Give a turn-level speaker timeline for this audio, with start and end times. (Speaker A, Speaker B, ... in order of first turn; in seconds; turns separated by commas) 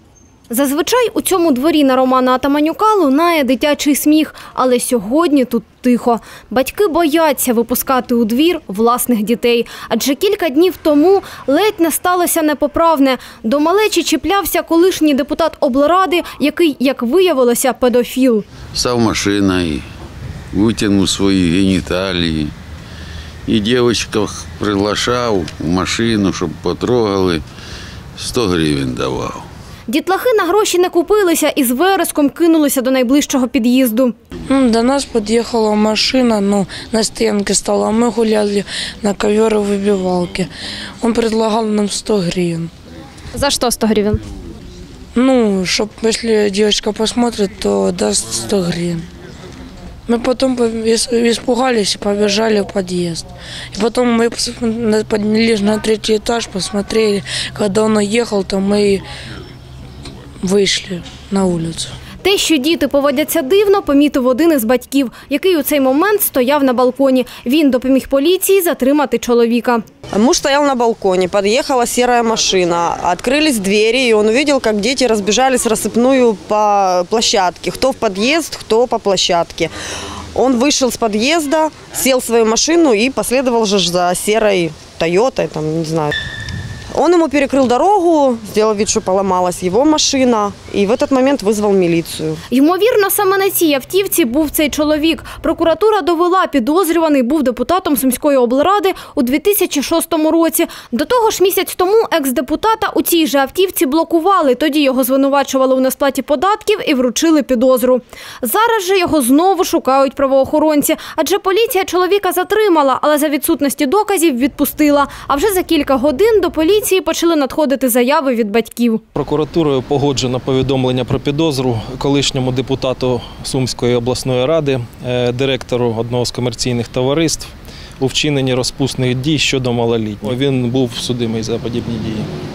Speaker A: 0.5-18.4, Speaker B: 18.7-19.9, Speaker B: 20.5-22.5, Speaker B: 23.5-27.4, Speaker B: 28.2-29.5, Speaker A: 29.9-34.1, Speaker C: 34.5-42.7, Speaker A: 43.4-44.2, Speaker C: 45.1-49.1, Speaker C: 50.1-59.0, Speaker C: 60.4-61.9, Speaker A: 62.2-69.8, Speaker D: 70.1-79.7, Speaker D: 80.3-86.1, Speaker D: 86.9-92.4, Speaker A: 92.5-119.0, Speaker E: 119.2-132.3